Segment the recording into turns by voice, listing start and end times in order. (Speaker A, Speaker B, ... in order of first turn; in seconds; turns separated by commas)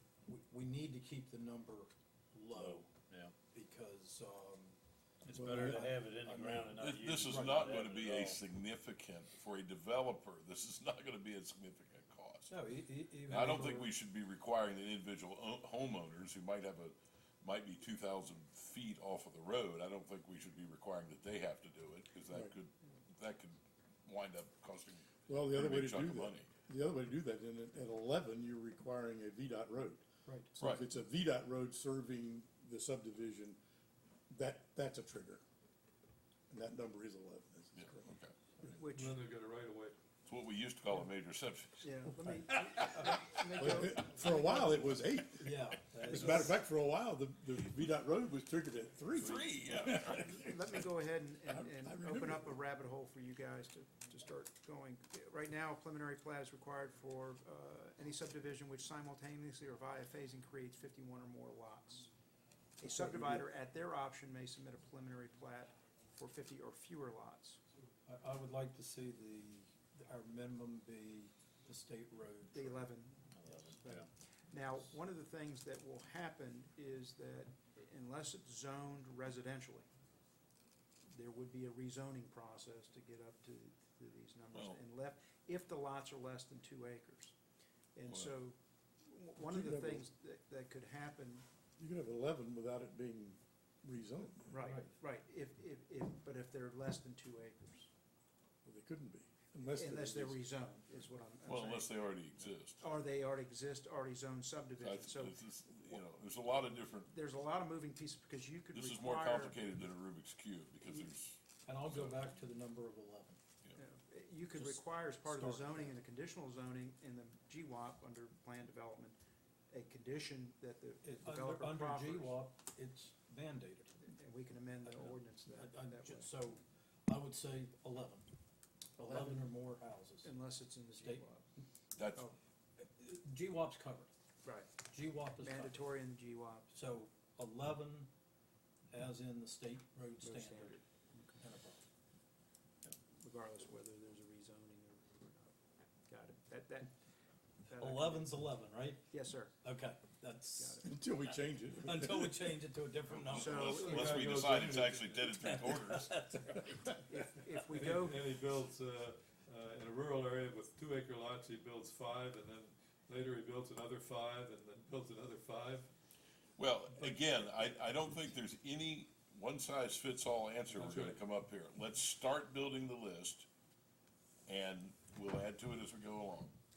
Speaker A: 0.3-2.9, Speaker B: 2.5-3.3, Speaker A: 3.5-7.8, Speaker B: 5.2-8.4, Speaker C: 5.3-5.9, Speaker D: 6.7-12.5, Speaker A: 12.5-13.9, Speaker D: 13.3-26.5, Speaker C: 25.3-30.0, Speaker A: 30.2-30.5, Speaker C: 30.5-33.6, Speaker C: 34.3-35.4, Speaker C: 36.5-38.1, Speaker D: 37.7-38.9, Speaker E: 38.6-39.2, Speaker F: 39.0-40.0, Speaker D: 40.2-42.0, Speaker E: 41.8-45.0, Speaker C: 42.1-45.5, Speaker A: 45.4-46.6, Speaker C: 46.0-50.8, Speaker D: 49.1-50.3, Speaker E: 49.8-62.1, Speaker C: 51.5-52.5, Speaker E: 62.8-67.6, Speaker C: 63.0-63.4, Speaker A: 63.0-63.4, Speaker A: 68.0-73.8, Speaker E: 72.5-79.9, Speaker E: 81.1-87.3, Speaker D: 84.5-84.8, Speaker E: 87.9-91.5, Speaker D: 88.0-88.3, Speaker C: 89.4-90.1, Speaker C: 91.8-94.6, Speaker E: 94.5-97.9, Speaker A: 94.6-94.9, Speaker C: 98.6-100.4, Speaker E: 99.7-102.0, Speaker D: 101.5-102.8, Speaker E: 102.8-106.0, Speaker D: 104.8-107.1, Speaker E: 107.0-109.6, Speaker D: 108.7-112.3, Speaker A: 111.6-113.4, Speaker E: 113.8-119.2, Speaker A: 114.5-116.0, Speaker E: 119.7-122.4, Speaker A: 121.0-124.1, Speaker E: 124.0-126.3, Speaker A: 124.8-128.3, Speaker A: 129.0-131.2, Speaker E: 129.0-129.5, Speaker E: 130.2-131.5, Speaker D: 131.9-132.2, Speaker A: 132.8-134.1, Speaker E: 134.4-134.7, Speaker A: 134.9-135.9, Speaker E: 135.4-136.7, Speaker A: 136.7-138.1, Speaker A: 138.9-140.8, Speaker E: 140.2-141.4, Speaker A: 141.4-141.8, Speaker E: 143.0-145.6, Speaker E: 146.1-146.9, Speaker E: 147.7-148.4, Speaker A: 147.8-149.0, Speaker E: 149.1-149.5, Speaker A: 149.6-150.9, Speaker E: 150.6-150.9, Speaker C: 150.8-152.5, Speaker A: 151.7-153.9, Speaker E: 153.3-154.5, Speaker D: 153.3-156.2, Speaker F: 153.8-155.3, Speaker A: 155.3-156.9, Speaker E: 157.1-158.3, Speaker F: 157.7-165.9, Speaker D: 166.6-173.5, Speaker F: 170.7-171.2, Speaker D: 174.5-176.5